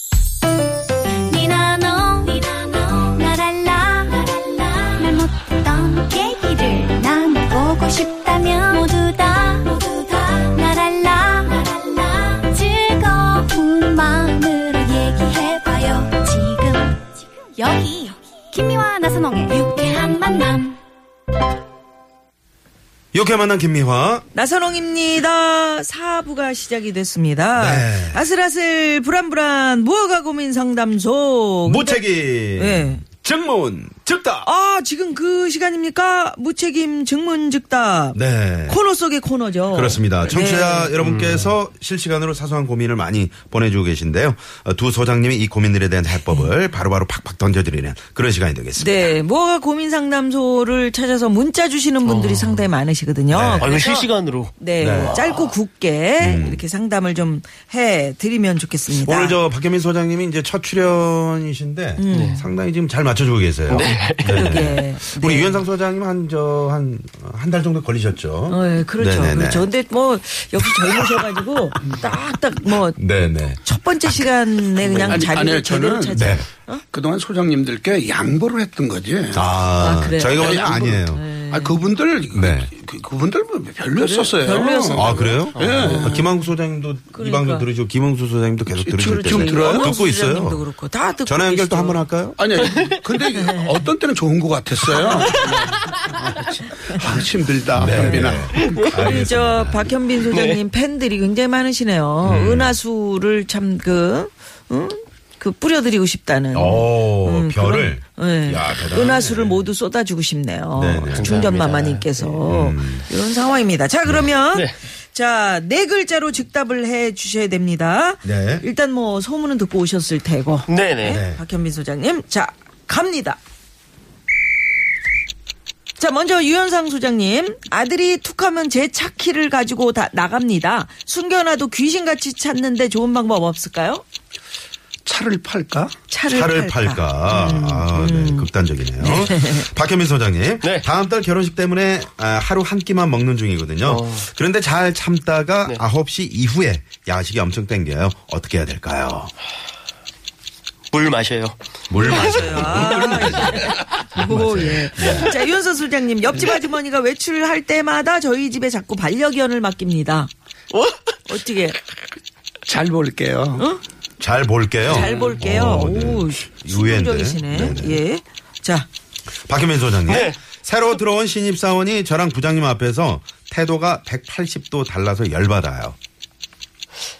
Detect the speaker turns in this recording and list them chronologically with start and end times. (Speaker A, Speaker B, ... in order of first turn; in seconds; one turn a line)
Speaker A: 1.2-20.8
Speaker B: 23.1-24.2
Speaker C: 24.3-32.0
Speaker B: 27.6-28.2
Speaker B: 31.6-34.5
Speaker C: 32.5-33.0
Speaker C: 34.4-40.9
Speaker B: 38.1-38.8
Speaker B: 39.7-49.2
Speaker D: 41.0-41.5
Speaker C: 48.8-59.4
Speaker D: 52.0-52.7
Speaker B: 53.3-53.8
Speaker D: 53.6-55.5
Speaker B: 54.8-55.2
Speaker B: 56.2-56.6
Speaker B: 58.9-69.7
Speaker C: 62.0-62.5
Speaker D: 62.1-62.4
Speaker D: 63.7-64.7
Speaker C: 63.7-65.6
Speaker C: 68.5-73.0
Speaker B: 70.6-71.9
Speaker B: 73.0-74.3
Speaker C: 73.6-76.8
Speaker E: 74.9-79.5
Speaker B: 76.1-76.5
Speaker B: 79.3-81.2
Speaker C: 79.8-81.8
Speaker E: 80.3-86.2
Speaker B: 82.3-82.7
Speaker C: 83.9-86.3
Speaker B: 84.9-90.6
Speaker D: 85.5-85.9
Speaker C: 87.1-87.7
Speaker E: 88.7-90.0
Speaker C: 89.0-92.0
Speaker B: 91.2-92.4
Speaker E: 92.4-99.0
Speaker C: 93.3-93.8
Speaker C: 94.9-95.5
Speaker D: 95.4-96.2
Speaker C: 96.9-97.2
Speaker B: 97.7-99.9
Speaker C: 97.8-123.4
Speaker D: 98.6-98.9
Speaker D: 100.3-100.6
Speaker B: 102.2-102.8
Speaker B: 106.5-109.6
Speaker B: 110.8-111.3
Speaker D: 111.1-112.4
Speaker B: 112.5-113.1
Speaker B: 118.2-118.6
Speaker D: 120.7-121.2
Speaker B: 121.0-121.4
Speaker C: 126.0-134.0
Speaker E: 135.1-135.9
Speaker C: 136.1-139.7
Speaker B: 136.3-149.3
Speaker D: 143.8-144.2
Speaker D: 150.9-153.7
Speaker B: 151.9-155.3
Speaker C: 152.0-160.3
Speaker D: 160.7-161.2
Speaker C: 161.3-161.8
Speaker E: 162.7-163.7
Speaker B: 164.2-168.0
Speaker C: 164.8-168.9
Speaker B: 169.5-175.9
Speaker D: 170.1-170.4